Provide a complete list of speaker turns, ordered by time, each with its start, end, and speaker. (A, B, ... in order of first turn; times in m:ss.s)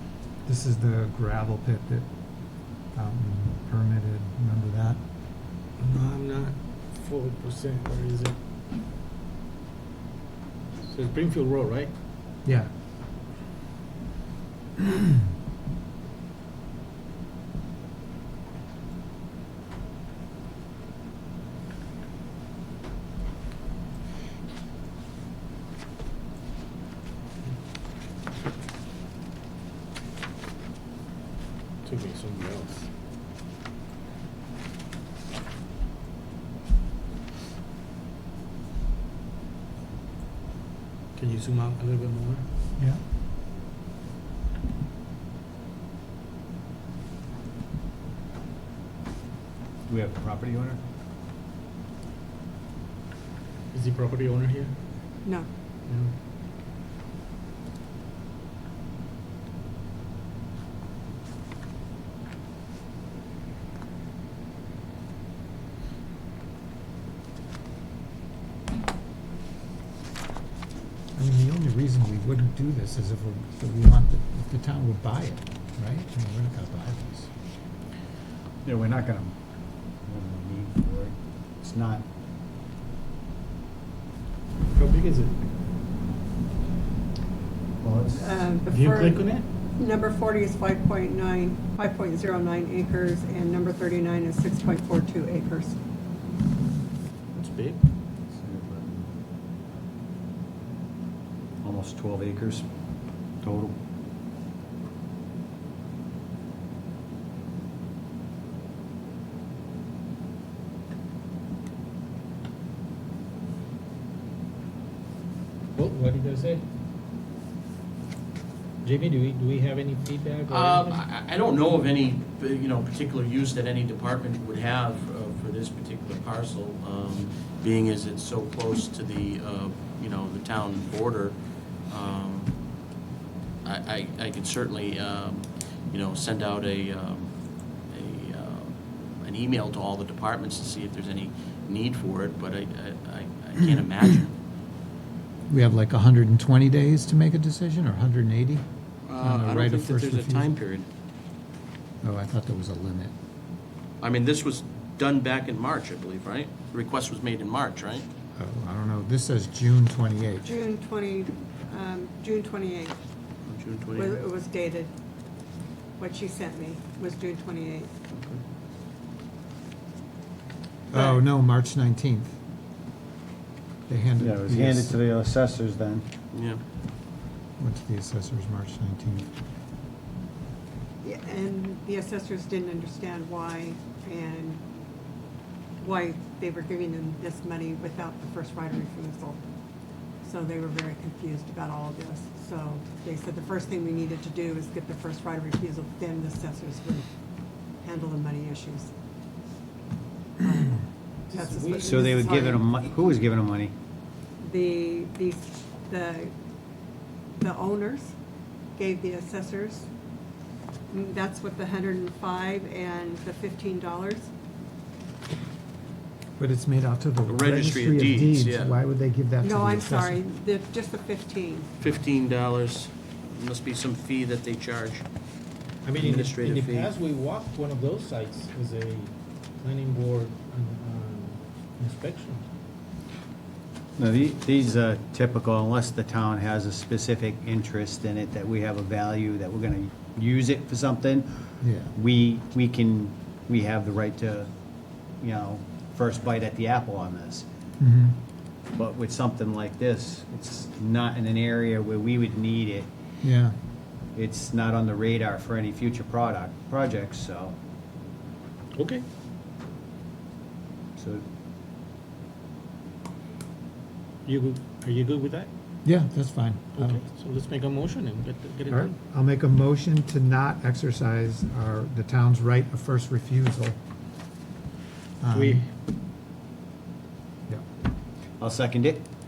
0:00.4-0:02.1 A
0:02.9-0:05.0 A
0:05.8-0:08.4 B
0:10.8-0:11.9 B
0:12.4-0:12.7 A
0:31.8-0:32.9 B
0:41.2-0:42.4 B
0:49.9-0:50.8 C
0:53.7-0:54.7 B
1:11.1-1:17.3 A
1:18.6-1:19.3 C
1:20.0-1:22.0 C
1:24.7-1:25.4 B
1:27.8-1:28.4 C
1:28.2-1:35.8 D
1:28.7-1:29.5 B
1:37.3-1:37.8 B
1:38.3-1:39.1 C
1:41.6-1:42.7 C
1:43.4-1:43.8 C
1:55.7-1:56.6 B
1:58.8-2:01.0 B
2:00.5-2:12.5 E
2:13.6-2:17.3 E
2:17.9-2:24.3 E
2:25.5-2:28.6 A
2:29.0-2:30.9 E
2:29.2-2:30.6 A
2:32.0-2:33.1 A
2:34.0-2:38.1 E
2:38.4-2:40.5 A
2:40.4-2:43.0 D
2:43.4-2:44.2 E
2:43.9-2:44.9 D
2:46.0-2:47.9 D
2:48.1-2:48.4 E
2:50.9-2:52.4 A
2:50.9-2:51.2 D
2:53.9-2:55.0 A
2:54.2-2:56.1 C
2:56.3-2:56.6 E
2:57.6-2:59.3 A
3:01.0-3:04.6 D
3:05.8-3:09.4 D
3:10.2-3:17.0 D
3:17.8-3:18.9 D
3:20.4-3:22.6 D
3:21.3-3:22.5 B
3:21.8-3:23.7 C
3:24.4-3:26.3 D
3:27.4-3:28.1 D
3:28.8-3:29.9 D
3:30.9-3:34.3 D
3:36.4-3:40.2 A
3:37.3-3:38.8 E
3:39.4-3:41.7 D
3:41.8-3:45.0 E
3:45.8-3:52.4 B
3:46.0-3:46.9 E
3:54.0-4:04.5 C
4:01.6-4:01.9 A
4:05.2-4:07.4 C
4:07.8-4:08.2 A
4:08.7-4:12.9 C
4:13.2-4:13.6 A
4:14.1-4:17.6 C
4:18.7-4:19.0 B
4:21.0-4:21.2 C
4:24.2-4:25.5 B
4:25.8-4:27.0 A
4:26.7-4:28.9 B
4:28.7-4:33.8 A
4:35.2-4:35.6 A
4:35.3-4:35.7 B
4:38.4-4:39.0 C